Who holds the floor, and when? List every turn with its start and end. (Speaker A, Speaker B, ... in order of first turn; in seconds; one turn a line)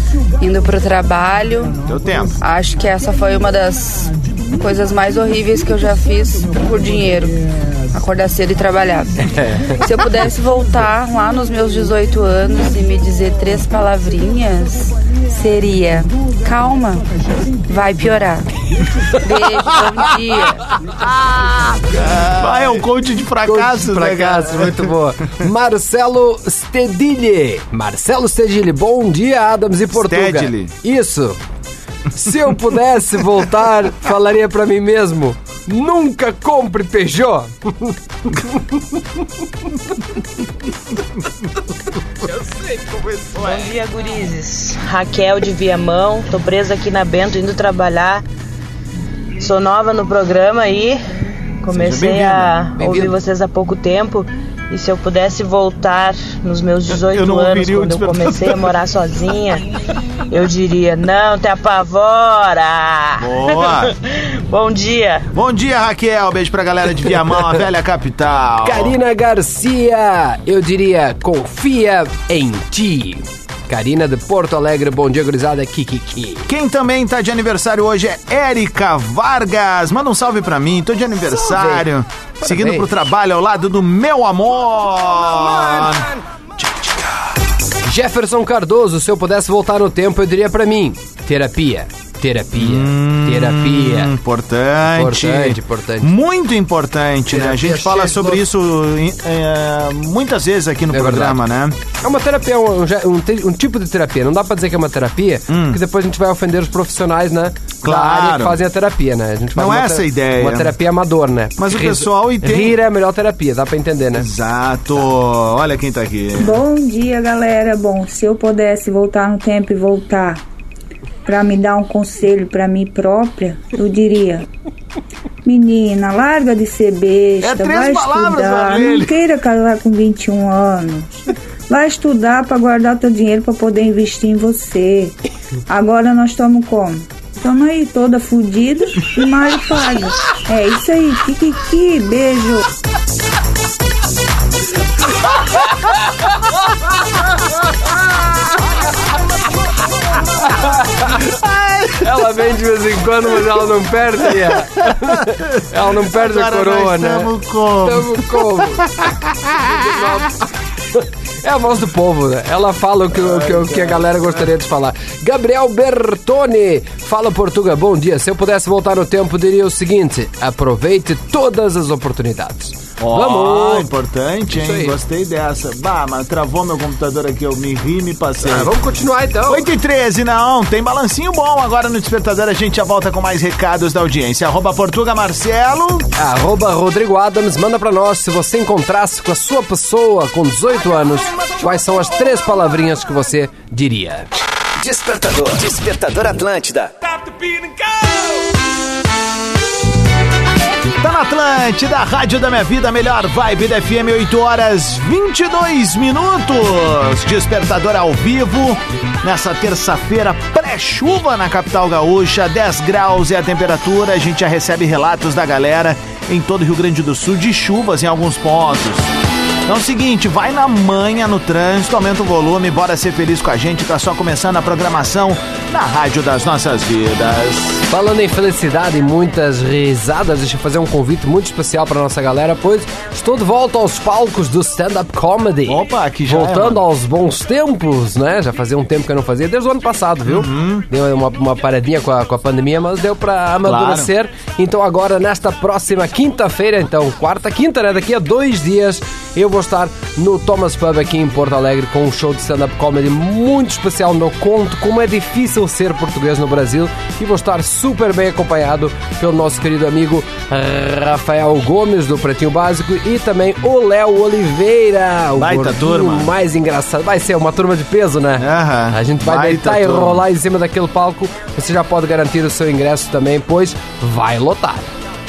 Speaker A: 0.4-1.8
Speaker B: 1.8-2.3
Speaker A: 2.4-7.3
Speaker A: 7.9-17.1
Speaker A: 17.7-18.5
Speaker A: 19.1-20.6
Speaker B: 21.9-24.9
Speaker C: 23.4-31.4
Speaker B: 29.9-30.7
Speaker C: 32.1-37.9
Speaker D: 43.4-48.2
Speaker D: 49.4-51.0
Speaker D: 51.6-59.6
Speaker B: 51.7-52.5
Speaker C: 52.8-53.1
Speaker B: 57.0-58.7
Speaker D: 60.3-65.2
Speaker B: 63.2-63.9
Speaker B: 65.3-69.0
Speaker C: 68.6-76.5
Speaker B: 76.5-86.1
Speaker C: 81.4-81.8
Speaker C: 82.4-82.9
Speaker C: 87.8-94.1
Speaker B: 92.5-101.8
Speaker C: 94.9-96.1
Speaker C: 97.3-98.4
Speaker C: 100.9-101.4
Speaker C: 102.0-114.3
Speaker B: 105.5-105.8
Speaker B: 107.8-108.6
Speaker B: 109.5-110.7
Speaker B: 111.6-112.8
Speaker B: 114.1-116.6
Speaker E: 116.4-120.4
Speaker E: 121.2-124.5
Speaker E: 125.4-135.1
Speaker B: 127.4-129.1
Speaker E: 135.7-142.7
Speaker C: 150.4-151.2
Speaker B: 151.2-152.1
Speaker C: 152.0-157.3
Speaker B: 155.0-159.7
Speaker C: 157.8-173.9
Speaker B: 163.1-164.2
Speaker B: 173.0-178.7
Speaker C: 174.5-174.9
Speaker C: 178.4-179.7
Speaker B: 179.5-186.1
Speaker C: 186.2-194.3
Speaker F: 194.8-196.9
Speaker B: 201.0-219.1
Speaker B: 219.7-227.8
Speaker C: 227.9-274.9
Speaker B: 235.7-236.8
Speaker B: 240.2-240.8
Speaker B: 243.6-244.1
Speaker B: 265.4-266.3
Speaker B: 268.4-270.2